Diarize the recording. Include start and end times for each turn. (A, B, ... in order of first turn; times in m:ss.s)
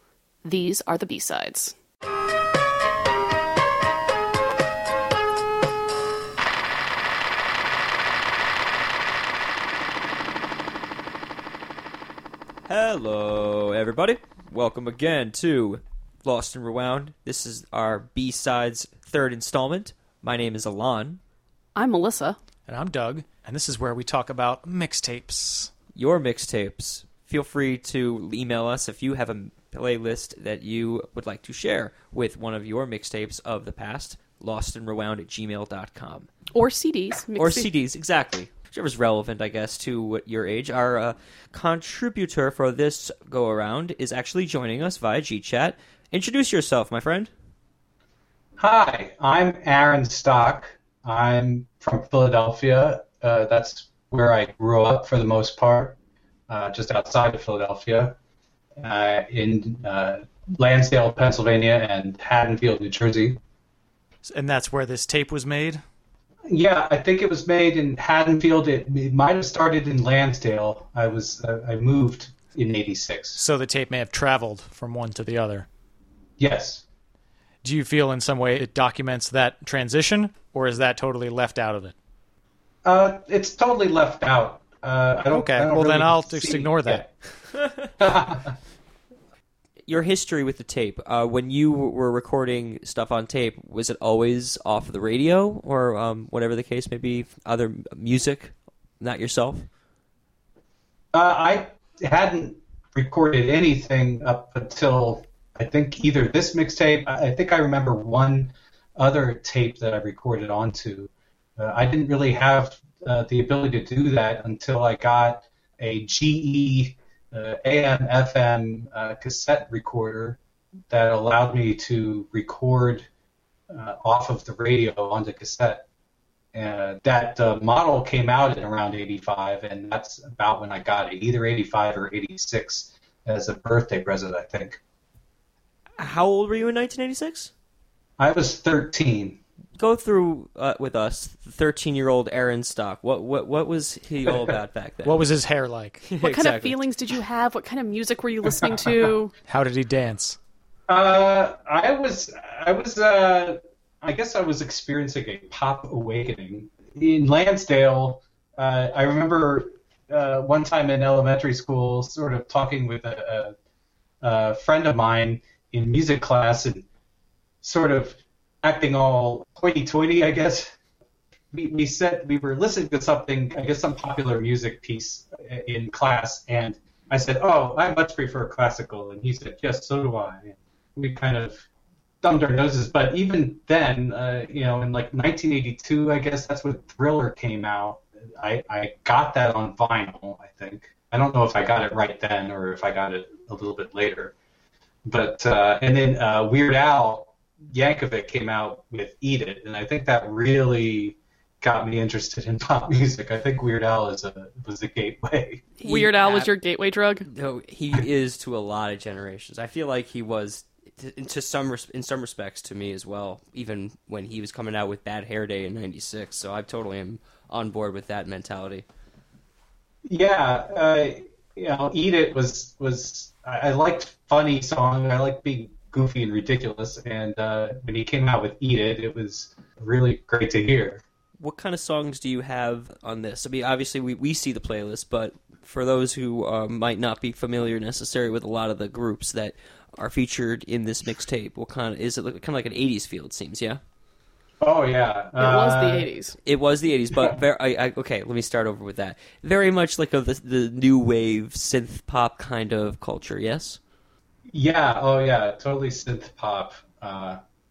0:00.4-0:01.7 A
0:12.7-0:21.2 B
0:21.8-0:22.4 A
0:22.7-0:25.7 C
0:25.9-0:36.3 B
0:36.5-0:37.7 A
0:37.4-0:47.3 B
0:48.6-0:56.0 D
0:56.5-0:58.1 D
0:58.8-1:03.4 D
1:04.2-1:05.8 C
1:06.5-1:13.4 D
1:13.4-1:15.7 C
1:16.4-1:16.8 D
1:17.6-1:21.9 C
1:22.8-1:27.0 D
1:25.3-1:27.0 C
1:27.6-1:27.9 B
1:28.0-1:28.5 D
1:29.9-1:39.7 B
1:41.1-2:00.4 D
2:00.9-2:03.0 D
2:03.7-2:05.8 D
2:06.5-2:14.8 D
2:16.0-2:17.5 B
2:18.2-2:19.4 D
2:19.8-2:25.3 B
2:25.0-2:26.0 C
2:26.0-2:26.8 B
2:26.2-2:29.3 A
2:29.5-2:30.4 C
2:30.9-2:43.5 D
2:44.2-2:46.8 D
2:47.6-2:50.7 D
2:51.5-3:01.6 D
3:02.2-3:14.3 D
3:15.1-3:25.6 D
3:25.8-3:27.2 A
3:25.8-3:26.5 B
3:27.3-3:38.8 B
3:40.0-3:51.0 D
3:51.4-4:03.8 B
4:04.6-4:06.1 D
4:05.4-4:06.4 A
4:06.4-4:13.8 B
4:14.5-4:17.4 D